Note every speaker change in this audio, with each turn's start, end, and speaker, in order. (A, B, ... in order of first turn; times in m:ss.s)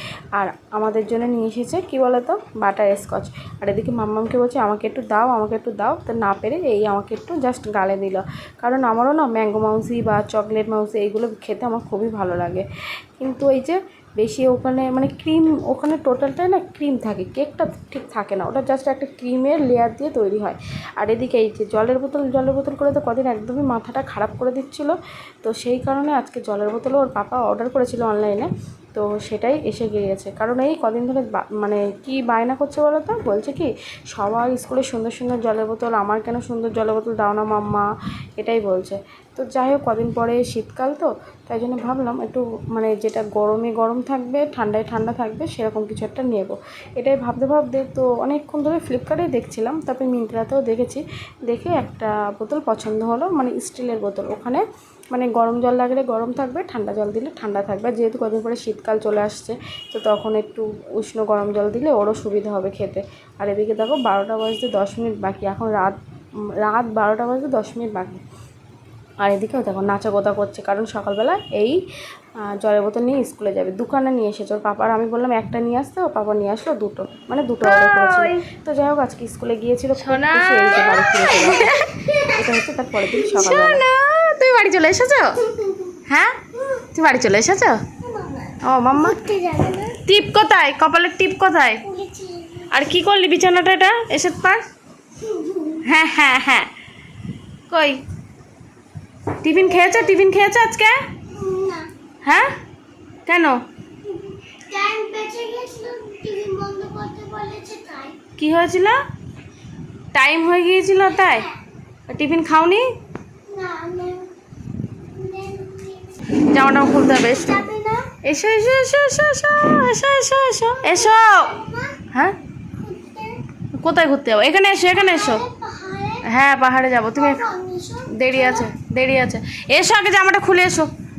0:00.4-0:12.6 A
0:13.2-0:37.9 A
0:38.4-1:06.0 A
1:06.6-1:08.2 A
1:09.2-1:11.8 A
1:12.5-1:23.8 A
1:17.6-1:18.4 B
1:20.0-1:22.0 B
1:20.8-1:22.5 C
1:23.3-1:25.5 B
1:25.5-1:25.9 C
1:26.1-1:27.8 B
1:26.6-1:26.9 C
1:28.0-1:30.0 C
1:28.6-1:29.2 B
1:30.0-1:31.8 B
1:31.8-1:32.8 C
1:32.7-1:34.6 B
1:35.2-1:35.9 C
1:35.8-1:36.7 B
1:37.7-1:38.0 B
1:39.4-1:41.0 B
1:39.5-1:40.2 C
1:41.3-1:41.9 C
1:42.2-1:42.5 B
1:43.3-1:43.6 B
1:44.0-1:48.2 C
1:48.4-1:49.0 B
1:50.1-1:51.5 B
1:51.0-1:51.6 C
1:52.1-1:52.8 B
1:53.5-1:54.3 C
1:55.1-1:56.4 C
1:56.3-1:57.6 B
1:57.0-1:58.2 C
1:58.2-2:01.6 B
2:00.8-2:02.1 C
2:02.7-2:03.4 C
2:03.7-2:05.4 B
2:04.9-2:06.3 C
2:06.2-2:07.5 B
2:07.1-2:08.8 C
2:08.1-2:10.9 B